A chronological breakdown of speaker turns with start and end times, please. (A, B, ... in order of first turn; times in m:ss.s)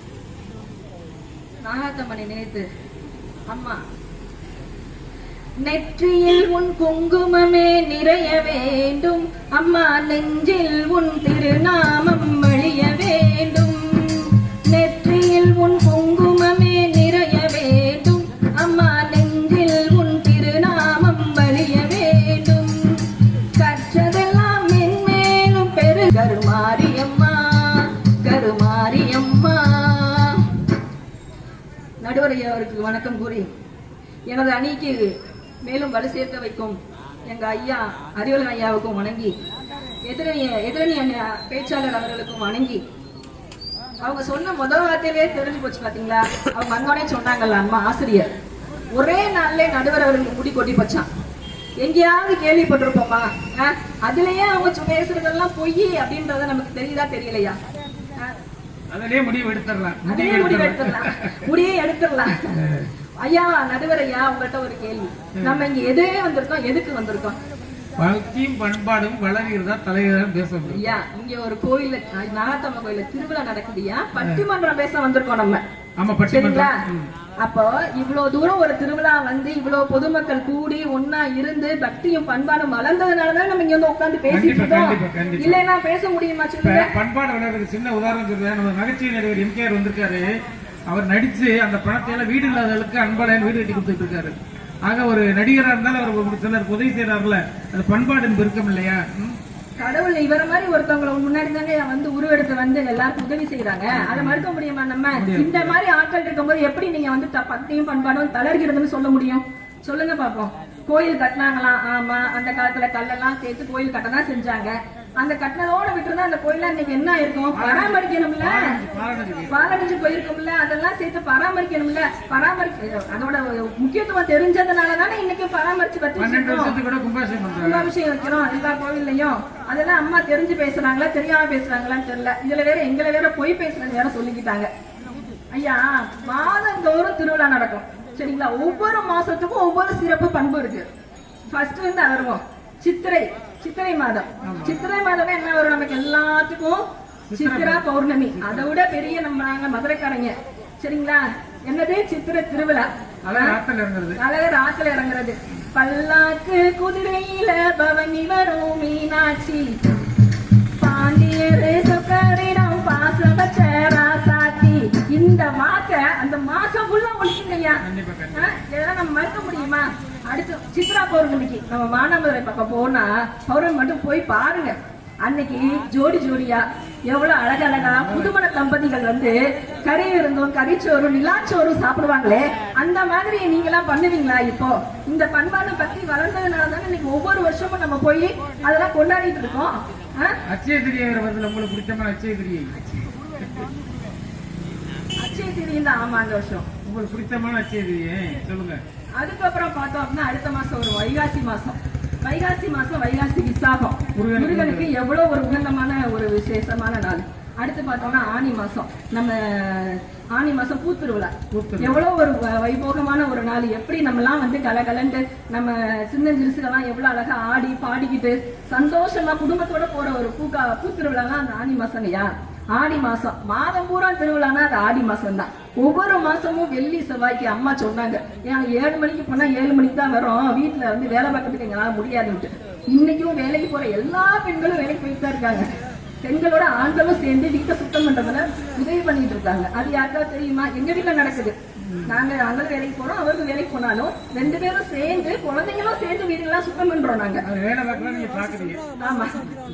0:01.6-0:02.7 A
0:03.5-0:03.8 A
0:05.6-0:30.4 A
0:32.0-0:33.5 A
0:34.3-0:35.1 A
0:35.6-0:39.3 A
0:40.1-0:42.8 A
0:44.0-0:48.3 A
0:48.9-0:51.1 A
0:51.8-0:57.6 A
0:58.9-1:01.4 B
1:00.0-1:02.5 A
1:02.5-1:02.9 B
1:03.2-1:07.4 A
1:05.4-1:05.6 B
1:08.0-1:11.0 B
1:10.7-1:15.6 A
1:14.2-1:14.4 B
1:16.0-1:17.1 B
1:16.3-1:16.8 A
1:17.4-1:26.9 A
1:24.3-1:25.6 B
1:26.6-1:30.3 B
1:30.9-1:34.3 B
1:34.9-1:39.4 B
1:39.8-1:58.8 A
1:43.9-1:44.5 B
1:45.1-1:45.8 B
1:57.5-1:59.8 B
1:59.5-2:06.8 A
2:06.2-2:07.9 B
2:07.6-2:14.7 A
2:15.5-2:20.8 A
2:21.5-2:33.6 A
2:24.4-2:24.8 B
2:27.3-2:28.6 B
2:33.2-2:34.2 B
2:34.2-2:39.8 A
2:40.8-2:47.8 A
2:47.8-2:48.5 B
2:48.3-3:10.4 A
2:57.8-2:58.3 B
3:10.5-3:12.7 B
3:13.4-3:13.7 B
3:15.2-3:16.7 A
3:16.8-3:18.8 B
3:19.2-3:55.7 A
3:24.2-3:24.9 B
3:31.5-3:32.0 B
3:56.2-4:07.4 A
4:01.9-4:02.1 B
4:07.4-4:08.8 B
4:09.0-4:09.5 A